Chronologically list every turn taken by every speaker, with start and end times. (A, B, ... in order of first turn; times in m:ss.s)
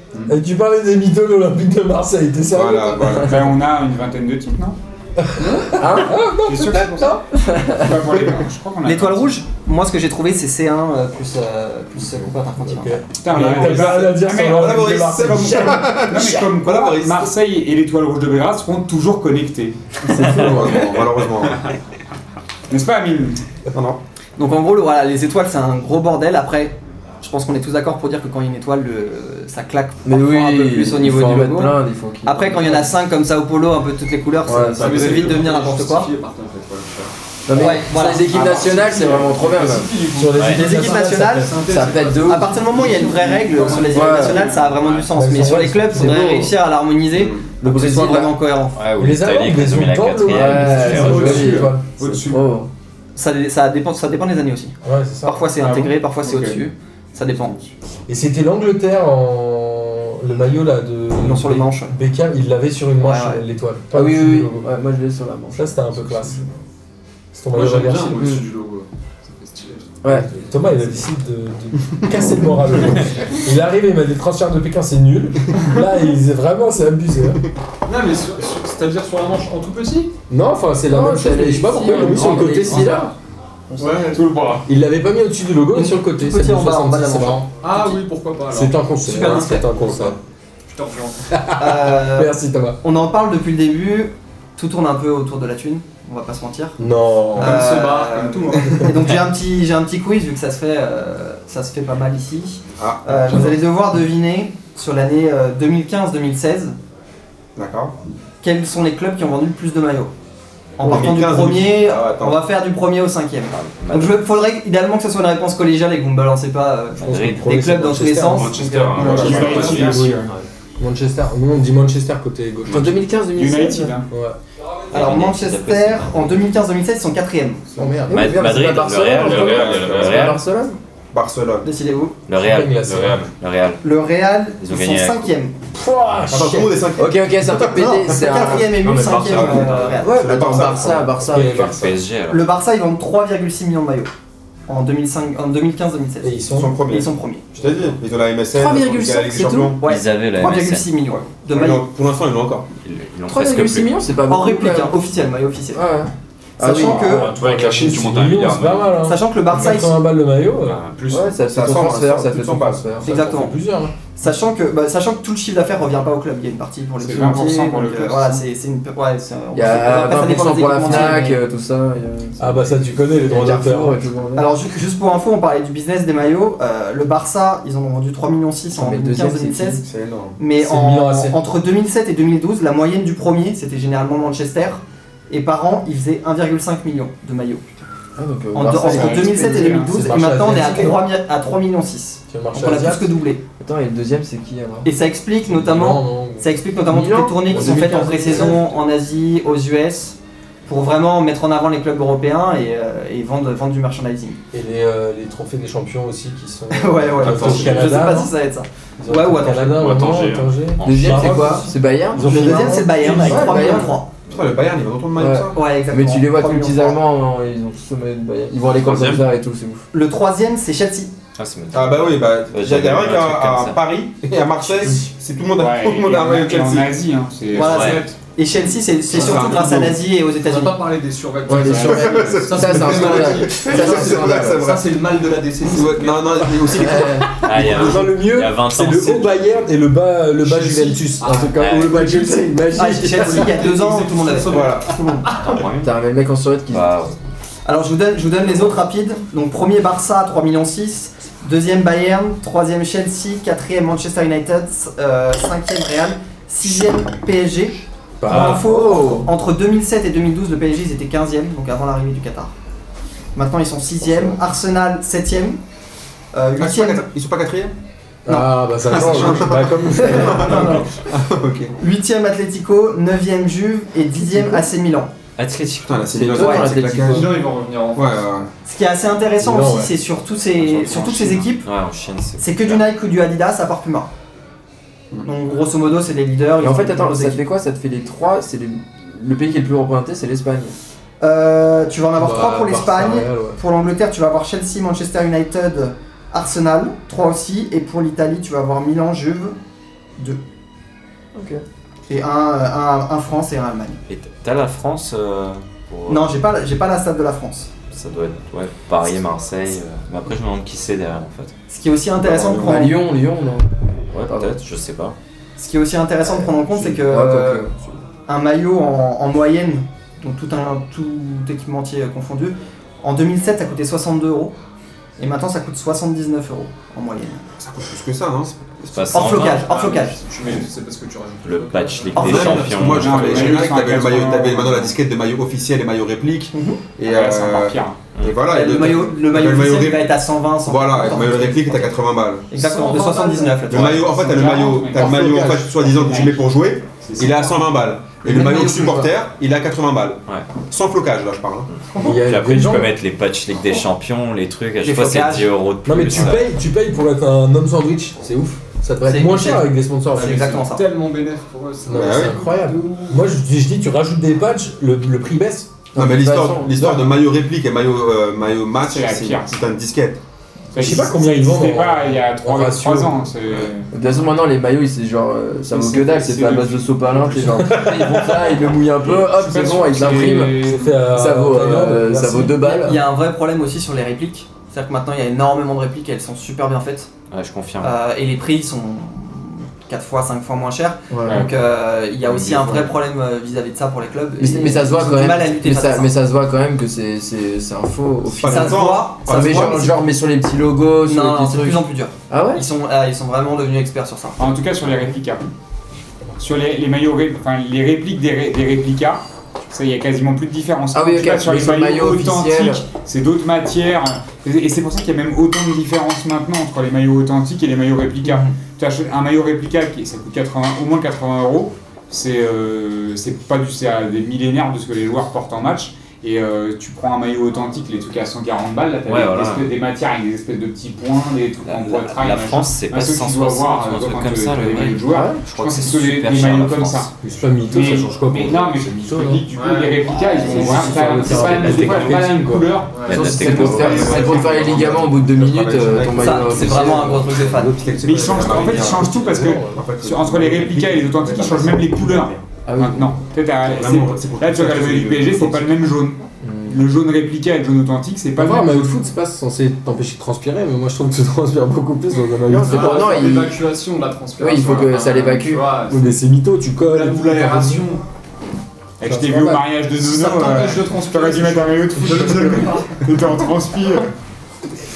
0:00.3-0:03.3 A
0:02.5-0:03.6 B
0:03.2-0:04.8 C
0:05.2-0:07.2 A
0:05.8-0:06.1 D
0:06.4-0:09.3 C
0:07.5-0:07.9 D
0:08.8-0:13.1 E
0:12.0-0:12.3 C
0:12.6-0:15.9 A
0:13.2-0:19.8 C
0:13.4-0:17.3 B
0:20.1-0:20.8 D
0:20.1-0:21.7 B
0:22.7-0:23.4 C
0:23.7-0:24.0 B
0:24.4-0:36.1 E
0:30.0-0:32.9 D
0:34.4-0:35.4 D
0:34.7-0:37.1 F
0:37.5-0:39.9 D
0:37.5-0:38.5 E
0:38.3-0:39.9 C
0:38.4-0:40.6 F
0:40.1-0:41.6 A
0:40.4-0:40.6 G
0:40.4-0:48.8 E
0:41.4-0:44.6 F
0:41.6-0:42.7 D
0:43.7-0:44.5 D
0:44.3-0:44.8 C
0:45.1-0:46.2 A
0:45.9-0:46.6 D
0:47.1-0:47.5 B
0:47.6-0:48.4 D
0:48.8-0:51.7 G
0:49.0-0:51.8 A
0:50.3-0:52.7 D
0:51.1-0:52.4 C
0:53.2-0:57.6 E
0:54.8-0:55.4 A
0:55.6-0:56.6 C
0:58.1-1:04.7 A
1:01.2-1:01.9 E
1:03.0-1:03.4 E
1:03.9-1:06.4 D
1:05.6-1:06.4 A
1:07.3-1:08.2 A
1:07.5-1:10.5 F
1:08.1-1:08.5 D
1:10.0-1:10.3 D
1:10.1-1:17.4 A
1:17.9-1:20.2 F
1:20.3-1:23.1 A
1:20.9-1:23.1 D
1:22.2-1:22.9 G
1:23.8-1:24.3 F
1:24.1-1:24.7 C
1:24.7-1:27.5 A
1:25.7-1:28.0 E
1:27.6-1:31.2 F
1:28.5-1:30.2 A
1:29.0-1:29.9 E
1:31.3-1:32.8 A
1:31.6-1:36.8 E
1:36.8-1:37.6 A
1:37.4-1:38.9 F
1:37.4-1:46.8 E
1:42.8-1:43.5 B
1:47.6-1:48.0 B
1:48.4-1:50.1 E
1:50.8-1:59.1 E
1:50.8-1:52.4 B
1:53.5-1:54.3 G
1:57.0-1:57.6 G
1:57.0-2:00.2 A
1:58.1-2:00.2 H
1:58.9-2:00.4 C
1:59.0-2:00.0 B
2:00.8-2:03.0 A
2:02.7-2:04.0 D
2:02.7-2:03.0 H
2:03.3-2:04.1 C
2:04.1-2:04.4 A
2:04.9-2:06.5 G
2:04.9-2:08.0 E
2:07.8-2:08.4 A
2:07.9-2:10.8 D
2:08.1-2:10.4 G
2:09.1-2:10.3 H
2:09.6-2:10.1 B
2:11.1-2:11.7 B
2:11.6-2:12.2 E
2:12.3-2:13.8 G
2:12.4-2:13.2 A
2:12.8-2:13.3 H
2:13.8-2:15.6 E
2:14.6-2:15.3 G
2:15.7-2:16.8 A
2:16.3-2:17.7 B
2:17.0-2:19.4 D
2:17.6-2:20.6 E
2:18.4-2:21.1 B
2:19.1-2:19.9 G
2:20.0-2:21.9 D
2:20.8-2:22.0 A
2:21.6-2:22.5 G
2:22.3-2:24.1 E
2:24.7-2:27.6 E
2:26.2-2:26.7 A
2:26.5-2:29.8 B
2:28.5-2:29.8 D
2:29.8-2:31.8 E
2:29.8-2:30.9 G
2:31.5-2:32.7 B
2:32.8-2:34.0 G
2:33.3-2:35.0 D
2:34.3-2:35.9 E
2:35.7-2:37.2 D
2:36.6-2:37.3 E
2:36.9-2:40.8 A
2:37.0-2:39.0 H
2:39.0-2:40.0 E
2:40.6-2:41.4 H
2:41.1-2:43.1 D
2:41.5-2:42.9 B
2:43.0-2:43.6 E
2:43.0-2:43.9 A
2:44.2-2:51.4 E
2:47.0-2:48.4 C
2:49.5-2:54.5 D
2:50.9-2:51.2 A
2:52.4-2:54.0 A
2:54.4-2:59.8 E
2:58.7-2:59.8 D
2:59.8-3:00.4 B
3:00.4-3:07.9 E
3:00.6-3:01.4 A
3:08.2-3:09.5 D
3:08.5-3:13.4 E
3:08.8-3:10.1 C
3:09.8-3:11.0 A
3:12.3-3:13.1 A
3:13.6-3:14.9 D
3:14.8-3:24.4 E
3:15.5-3:16.6 A
3:16.9-3:18.6 D
3:17.5-3:18.6 A
3:24.5-3:28.3 A
3:26.7-3:30.0 E
3:27.2-3:27.9 H
3:29.0-3:33.8 A
3:29.7-3:30.6 H
3:30.8-3:31.6 G
3:30.8-3:34.0 D
3:32.2-3:34.1 E
3:34.3-3:35.6 B
3:35.2-3:39.8 D
3:35.5-3:37.0 E
3:38.7-3:39.2 H
3:39.9-3:41.1 E
3:41.4-3:43.8 G
3:41.7-3:47.0 B
3:45.6-3:48.0 C
3:47.5-3:50.8 E
3:47.5-3:48.2 F
3:47.6-3:48.0 G
3:49.1-3:50.0 B
3:49.3-3:49.7 F
3:50.4-3:56.6 F
3:51.5-3:54.7 D
3:51.7-3:55.0 B
3:55.6-3:57.3 B
3:56.8-3:57.3 D
3:56.8-4:03.5 A
3:57.4-3:59.7 G
4:00.4-4:05.7 F
4:01.6-4:02.0 G
4:02.7-4:04.7 E
4:04.5-4:05.2 B
4:05.4-4:05.9 G
4:05.8-4:07.0 D
4:06.7-4:07.2 G
4:07.6-4:22.5 E
4:18.2-4:18.7 A
4:18.3-4:19.3 D
4:23.4-4:25.6 E
4:26.3-4:27.1 E
4:26.6-4:27.8 B
4:28.3-4:30.9 A
4:28.3-4:30.9 E
4:28.9-4:31.7 B
4:31.8-4:35.1 E
4:35.4-4:36.3 G
4:35.8-4:37.4 B
4:36.1-4:37.4 D
4:36.4-4:36.8 E
4:37.1-4:38.3 F
4:38.0-4:38.5 B
4:38.6-4:41.7 E
4:39.4-4:39.9 A
4:40.7-4:42.8 G
4:42.4-4:44.1 E
4:45.2-4:47.4 E
4:46.6-4:50.8 D
4:51.2-4:59.6 E
4:52.2-4:53.6 A
5:01.4-5:01.6 D
5:02.1-5:04.0 E
5:04.1-5:06.4 G
5:06.1-5:07.7 E
5:07.9-5:11.5 G
5:11.7-5:13.0 E
5:12.5-5:13.7 D
5:14.1-5:15.2 G
5:14.3-5:14.6 D
5:15.6-5:17.7 E
5:16.2-5:17.7 D
5:18.3-5:24.6 E
5:25.2-5:27.5 E
5:27.6-5:29.5 B
5:28.9-5:30.0 G
5:29.1-5:30.2 E
5:29.4-5:32.9 F
5:31.4-5:33.7 G
5:32.2-5:32.6 E
5:32.2-5:42.5 B
5:32.8-5:34.9 C
5:36.5-5:36.8 E
5:37.0-5:38.1 C
5:38.5-5:41.9 E
5:42.5-5:44.2 E
5:42.5-5:43.7 F
5:43.7-5:51.7 B
5:43.8-5:46.5 C
5:45.0-5:45.6 F
5:47.0-5:47.6 C
5:48.2-5:49.1 E
5:51.7-5:56.4 G
5:52.0-5:52.9 A
5:54.8-5:55.5 E
5:55.8-6:00.4 A
5:59.0-6:00.9 E
6:00.2-6:03.3 F
6:01.9-6:05.9 A
6:01.9-6:02.4 B
6:05.9-6:06.8 D
6:06.0-6:10.2 B
6:08.8-6:09.6 C
6:10.7-6:13.9 C
6:10.8-6:13.2 A
6:13.9-6:23.0 D
6:15.7-6:17.7 C
6:17.6-6:18.4 A
6:18.8-6:21.0 C
6:20.5-6:23.0 A
6:22.6-6:27.1 E
6:27.3-6:27.9 G
6:27.8-6:36.1 E
6:31.1-6:31.5 D
6:31.2-6:31.5 C
6:32.2-6:33.0 G
6:34.4-6:42.6 D
6:38.4-6:40.0 B
6:38.4-6:40.0 E
6:41.1-6:44.6 E
6:44.4-6:45.5 C
6:46.4-7:23.8 C
6:50.9-6:52.8 D
7:09.1-7:09.7 G
7:11.7-7:17.1 G
7:15.1-7:15.4 D
7:17.2-7:19.4 A
7:19.5-7:20.1 F
7:20.4-7:22.4 D
7:20.5-7:22.7 A
7:22.9-7:23.3 F
7:23.1-7:24.5 G
7:23.1-7:27.3 D
7:23.4-7:23.8 A
7:23.6-7:32.4 B
7:26.2-7:27.9 E
7:28.0-7:39.0 C
7:28.3-7:29.8 A
7:32.7-7:33.2 D
7:33.6-7:35.8 B
7:36.4-7:36.8 D
7:38.4-7:43.5 A
7:42.5-7:43.6 D
7:42.6-7:46.2 F
7:44.4-7:45.6 D
7:45.9-7:47.9 A
7:46.8-7:48.0 F
7:49.0-7:54.1 C
7:49.0-7:49.7 A
7:50.0-7:53.0 F